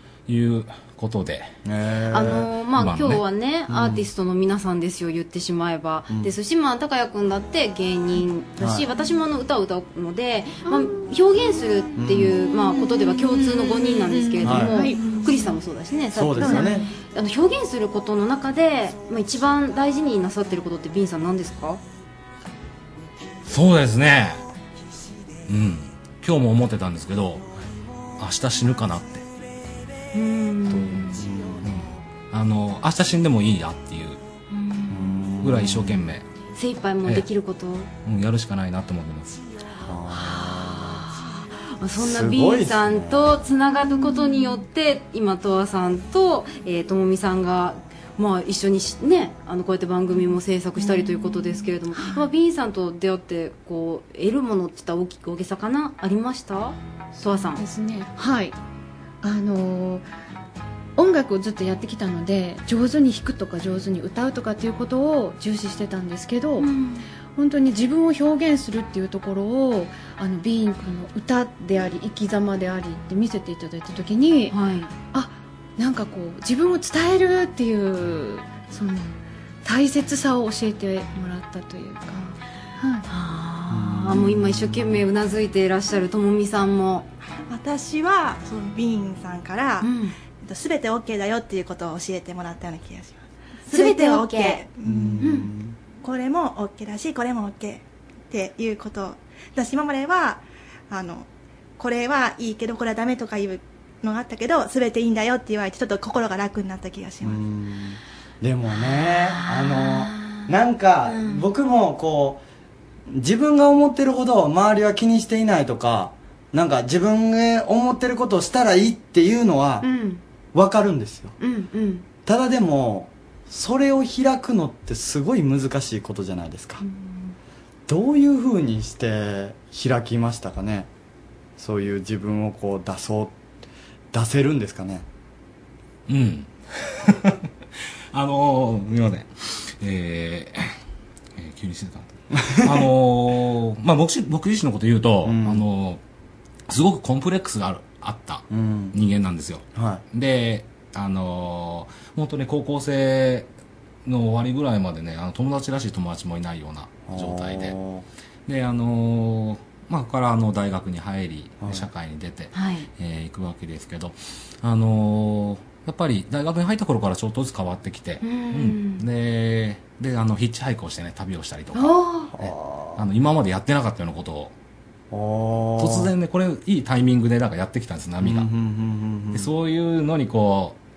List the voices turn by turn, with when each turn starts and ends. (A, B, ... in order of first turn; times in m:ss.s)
0:00.3-0:01.5 A
0:01.6-0:02.5 B
0:02.1-0:21.8 C
0:02.8-0:03.2 A
0:03.7-0:04.1 B
0:06.1-0:06.3 B
0:08.6-0:08.8 B
0:10.6-0:11.1 D
0:12.0-0:12.4 B
0:12.5-0:15.3 D
0:14.4-0:14.8 B
0:15.0-0:15.4 E
0:16.1-0:16.8 B
0:16.4-0:16.8 D
0:23.4-0:24.4 A
0:25.5-0:27.4 A
0:28.2-0:29.2 A
0:30.1-0:31.2 C
0:30.7-0:31.8 B
0:31.6-0:34.2 A
0:34.5-0:35.1 C
0:34.9-0:36.1 B
0:35.4-0:36.2 A
0:36.5-0:37.9 C
0:38.0-0:39.4 A
0:39.8-0:41.1 B
0:40.1-0:57.6 C
0:42.0-0:43.4 B
0:50.2-0:52.3 D
0:57.3-0:58.5 D
0:59.2-1:00.1 D
1:01.0-1:06.7 D
1:06.6-1:07.0 C
1:07.3-1:14.6 D
1:14.5-1:14.9 C
1:15.1-1:23.0 D
1:23.1-1:27.1 C
1:23.7-1:25.0 B
1:27.5-1:35.1 E
1:29.8-1:30.1 C
1:33.7-1:34.6 C
1:34.8-1:35.8 B
1:35.2-1:35.5 C
1:36.0-1:47.4 E
1:47.2-1:52.4 B
1:49.1-1:50.5 C
1:51.1-1:51.4 C
1:53.1-1:59.8 B
1:59.8-2:00.2 C
2:00.5-2:01.3 B
2:01.4-2:02.0 C
2:02.2-2:06.8 B
2:06.8-2:07.3 C
2:07.9-2:10.9 B
2:11.6-2:13.4 B
2:14.1-2:15.0 B
2:16.1-2:16.5 A
2:17.1-2:17.3 A
2:18.1-2:20.7 A
2:21.4-2:26.0 A
2:22.6-2:22.9 B
2:25.2-2:25.6 B
2:26.7-2:33.5 A
2:28.5-2:29.0 B
2:29.7-2:30.0 B
2:34.0-2:37.8 A
2:37.1-2:38.0 B
2:38.4-2:54.5 A
2:41.6-2:41.9 B
2:42.5-2:42.9 C
2:48.2-2:49.0 C
2:51.7-2:52.3 C
2:52.3-2:53.0 B
2:55.1-2:56.1 B
2:55.8-2:58.5 A
2:58.2-2:59.5 B
2:59.3-3:00.8 A